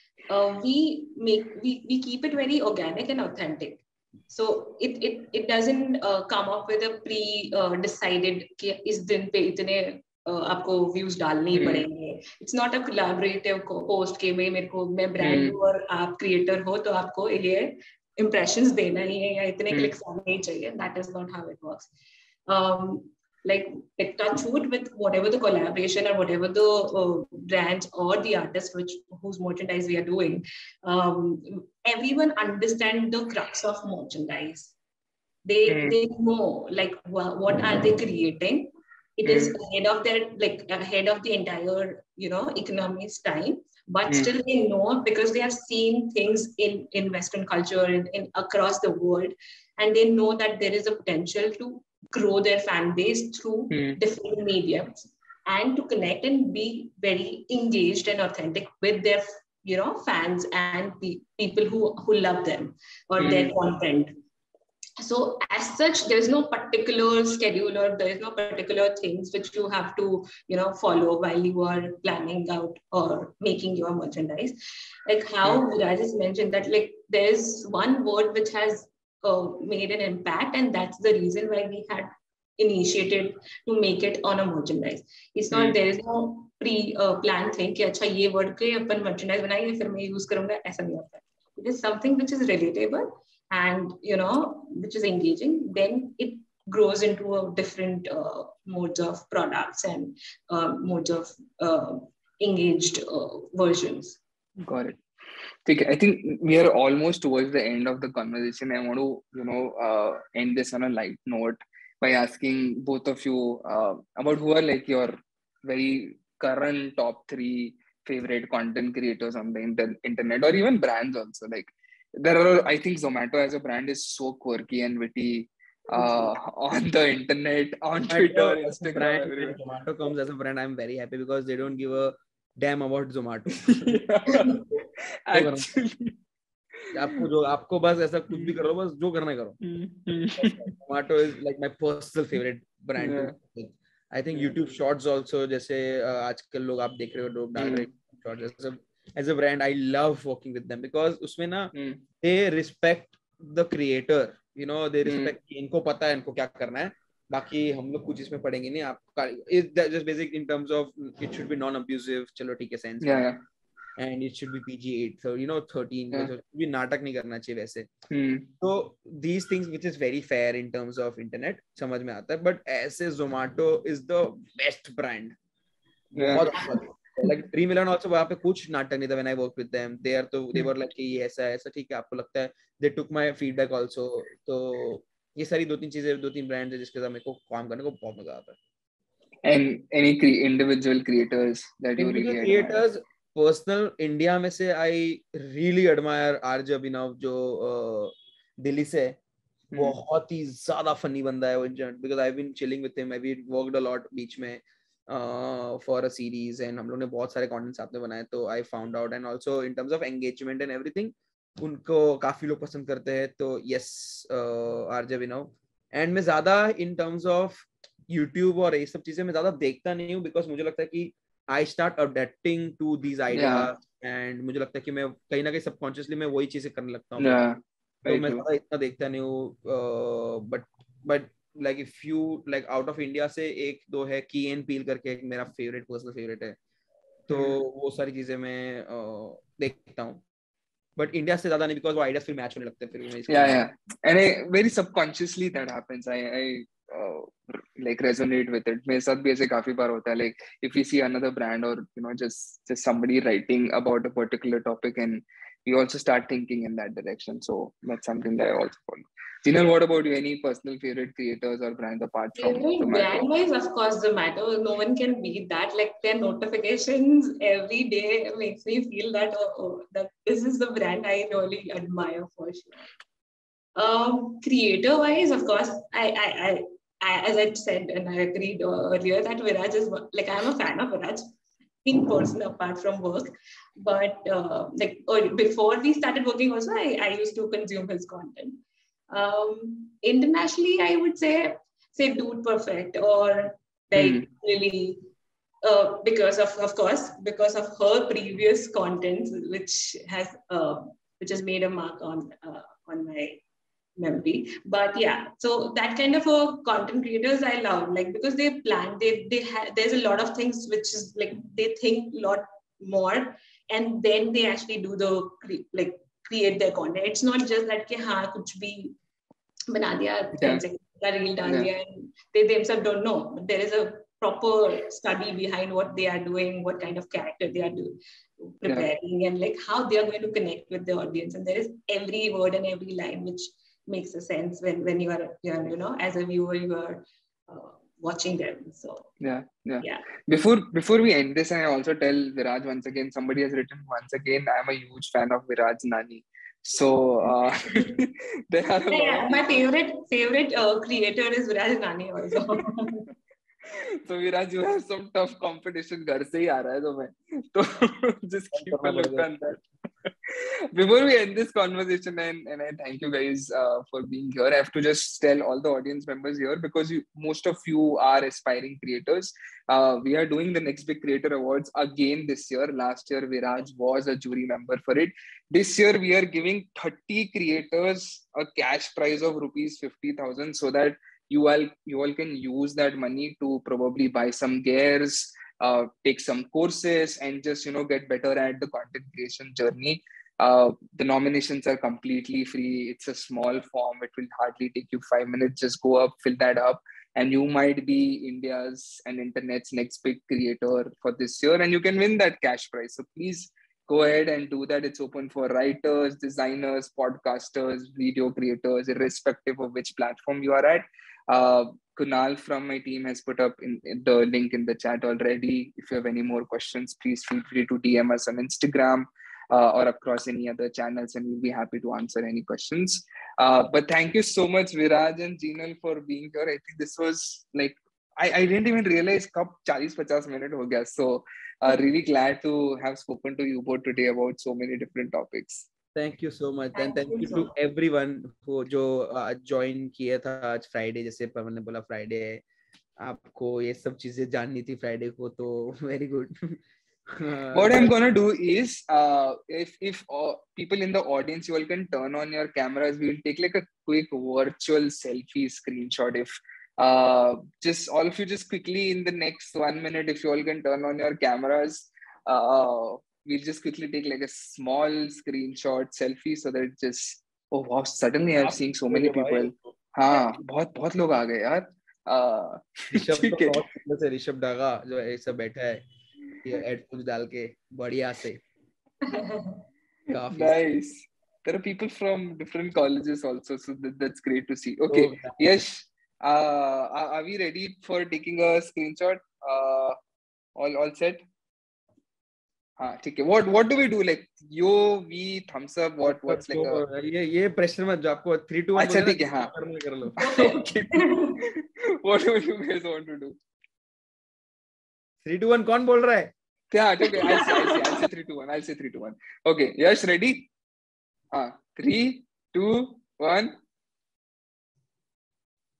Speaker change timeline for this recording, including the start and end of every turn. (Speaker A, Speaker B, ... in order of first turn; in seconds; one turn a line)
Speaker A: 0.3-21.9
Speaker B: 11.5-11.9
Speaker B: 15.2-15.6
Speaker A: 22.5-34.7
Speaker A: 35.5-64.1
Speaker B: 35.7-36.0
Speaker B: 39.2-39.5
Speaker B: 53.7-54.0
Speaker B: 63.2-63.5
Speaker A: 65.0-74.6
Speaker A: 75.1-104.2
Speaker B: 85.5-85.8
Speaker B: 104.7-105.0
Speaker B: 105.7-129.6
Speaker C: 125.9-126.3
Speaker C: 128.1-135.7
Speaker B: 133.7-134.6
Speaker B: 135.3-136.2
Speaker C: 136.9-139.6
Speaker B: 138.3-138.6
Speaker B: 139.6-140.7
Speaker C: 140.4-163.3
Speaker B: 143.0-143.3
Speaker B: 147.6-147.9
Speaker B: 151.7-152.0
Speaker B: 155.1-155.3
Speaker B: 163.0-163.4
Speaker C: 164.0-167.9
Speaker B: 168.1-168.5
Speaker C: 168.6-175.3
Speaker C: 176.1-188.6
Speaker B: 176.2-176.6
Speaker B: 189.4-192.8
Speaker C: 192.0-199.2
Speaker C: 199.8-227.4
Speaker B: 223.3-223.7
Speaker B: 227.2-228.4
Speaker C: 228.1-236.6
Speaker C: 237.3-240.2
Speaker B: 237.3-237.6
Speaker C: 241.0-243.7
Speaker B: 243.3-263.3
Speaker A: 262.4-272.9
Speaker A: 273.8-281.2
Speaker A: 281.9-295.0
Speaker B: 293.9-294.3
Speaker A: 295.6-303.4
Speaker A: 304.0-318.9
Speaker A: 319.7-339.1
Speaker B: 339.2-349.7
Speaker A: 348.9-353.1
Speaker B: 353.7-359.6
Speaker C: 358.5-359.3
Speaker B: 360.3-435.7
Speaker C: 435.9-442.4
Speaker A: 436.8-437.5
Speaker C: 443.0-447.9
Speaker B: 447.6-473.6
Speaker C: 468.4-469.7
Speaker C: 472.9-475.8
Speaker C: 476.4-478.4
Speaker A: 479.1-479.6
Speaker C: 480.1-480.6
Speaker B: 480.3-490.0
Speaker C: 484.9-485.4
Speaker B: 490.6-491.2
Speaker B: 492.8-496.8
Speaker C: 496.1-500.2
Speaker B: 498.8-499.5
Speaker B: 500.1-503.4
Speaker A: 500.2-501.4
Speaker C: 505.2-506.3
Speaker B: 506.7-510.5
Speaker A: 507.1-507.9
Speaker B: 511.3-513.6